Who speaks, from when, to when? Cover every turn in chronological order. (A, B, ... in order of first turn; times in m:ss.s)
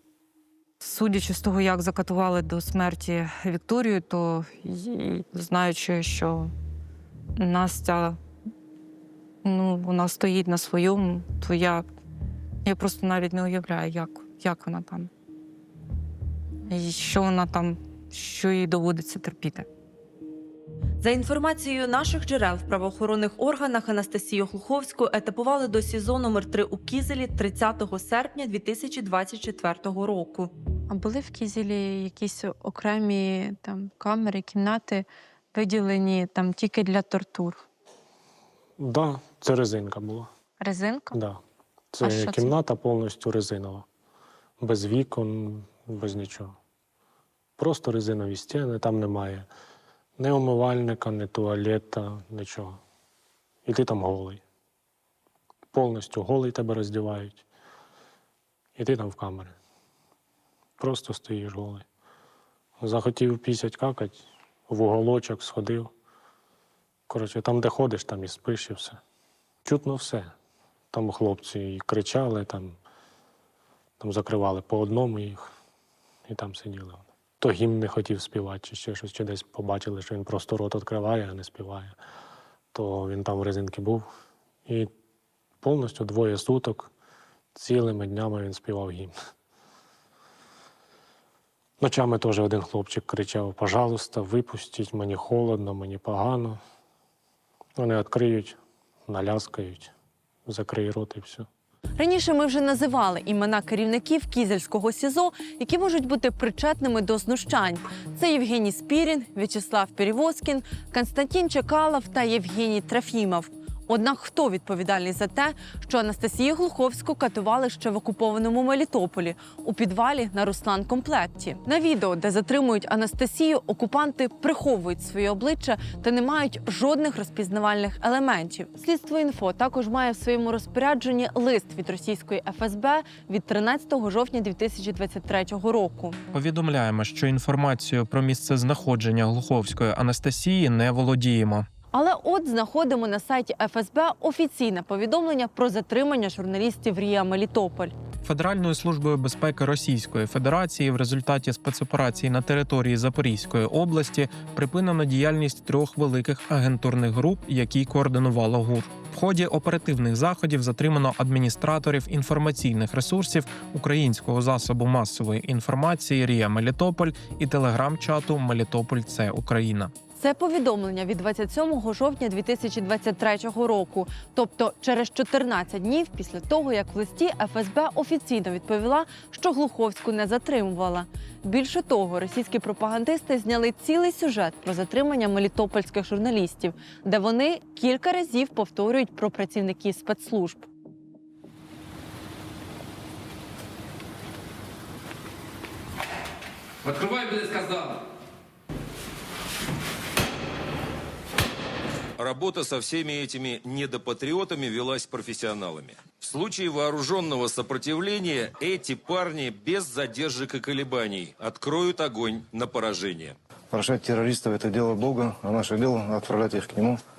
0:00.8-0:06.5 A
0:07.4-0:08.2 A
0:09.4-0:11.9 A
0:12.6-0:15.1 A
0:16.7-0:19.7 A
0:21.0-0:30.5 B
0:30.9-0:37.6 C
0:38.8-0:40.3 D
0:40.6-0:41.2 C
0:41.1-0:41.4 D
0:41.9-0:43.9 D
0:42.0-0:42.5 C
0:44.6-0:46.6 D
0:47.6-0:49.5 D
0:50.2-0:52.8 D
0:53.7-0:54.4 D
0:55.7-0:57.4 D
0:58.8-0:59.6 D
1:00.8-1:01.8 D
1:02.8-1:05.9 D
1:07.1-1:09.0 D
1:09.6-1:10.3 D
1:10.9-1:12.8 D
1:14.0-1:15.5 D
1:16.3-1:22.0 D
1:22.7-1:24.1 D
1:25.6-1:26.9 D
1:27.6-1:29.1 D
1:31.8-1:36.6 D
1:37.8-1:39.9 D
1:40.5-1:41.5 D
1:42.0-2:16.2 B
2:16.3-2:21.7 E
2:21.9-2:28.0 B
2:28.2-2:49.9 E
2:50.2-3:10.7 B
3:22.2-3:33.4 F
3:33.7-3:37.0 G